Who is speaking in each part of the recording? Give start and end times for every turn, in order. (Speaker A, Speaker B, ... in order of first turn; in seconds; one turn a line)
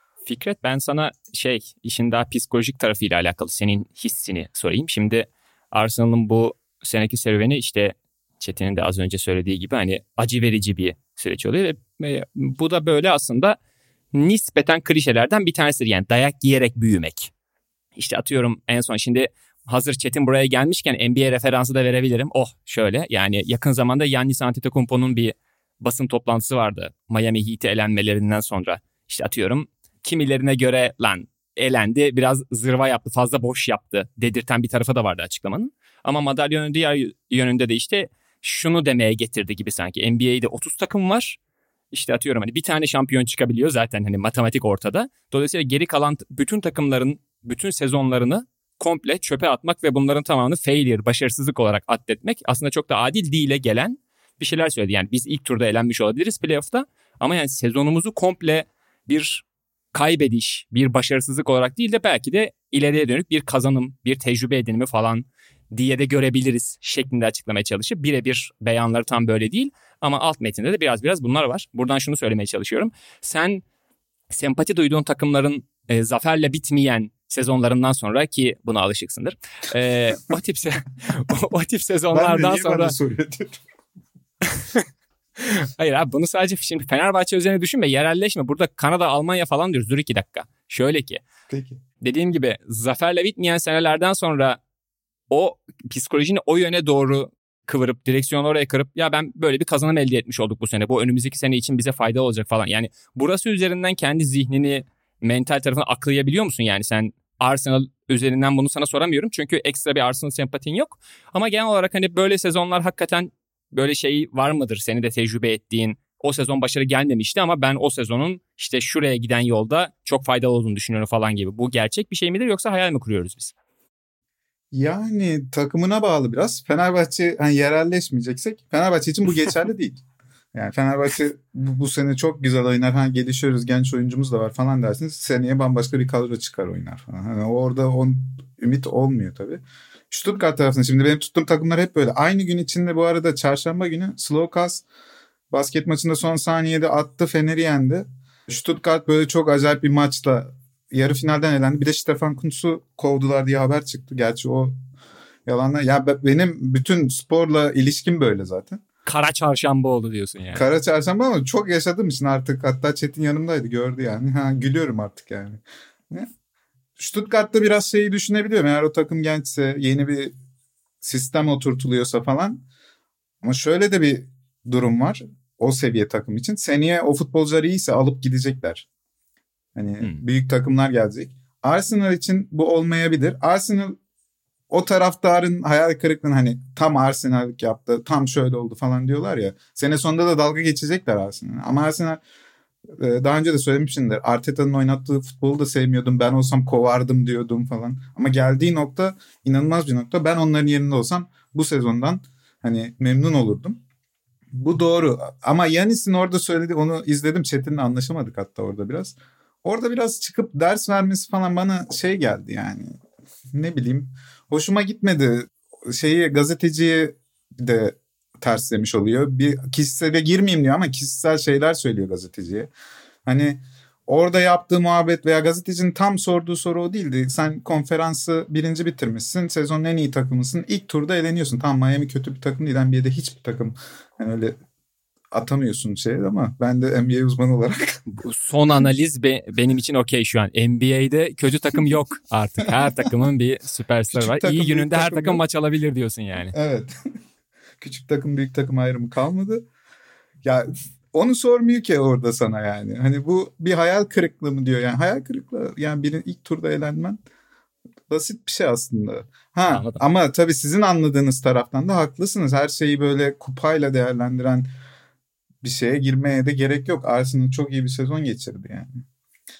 Speaker A: 0.3-13.6
Speaker A: 14.1-17.3
Speaker A: 18.0-41.4
Speaker A: 41.9-73.6
Speaker A: 74.3-83.0
Speaker B: 82.1-83.6
Speaker A: 84.5-84.8
Speaker A: 85.4-91.2
Speaker B: 91.5-91.8
Speaker A: 92.0-94.6
Speaker A: 95.3-123.5
Speaker B: 124.7-130.0
Speaker B: 130.5-144.8
Speaker B: 145.5-154.8
Speaker B: 155.5-158.8
Speaker A: 159.1-160.6
Speaker B: 160.5-166.3
Speaker B: 167.0-170.3
Speaker B: 171.0-172.7
Speaker B: 173.4-178.9
Speaker B: 179.8-184.0
Speaker B: 184.7-192.2
Speaker B: 193.0-203.8
Speaker B: 204.5-212.9
Speaker B: 213.5-222.7
Speaker B: 223.3-234.6
Speaker B: 235.3-238.0
Speaker A: 238.1-246.6
Speaker B: 244.1-245.4
Speaker B: 246.5-246.9
Speaker B: 247.8-249.7
Speaker B: 250.4-257.2
Speaker B: 258.1-264.7
Speaker A: 259.7-260.0
Speaker B: 265.6-268.9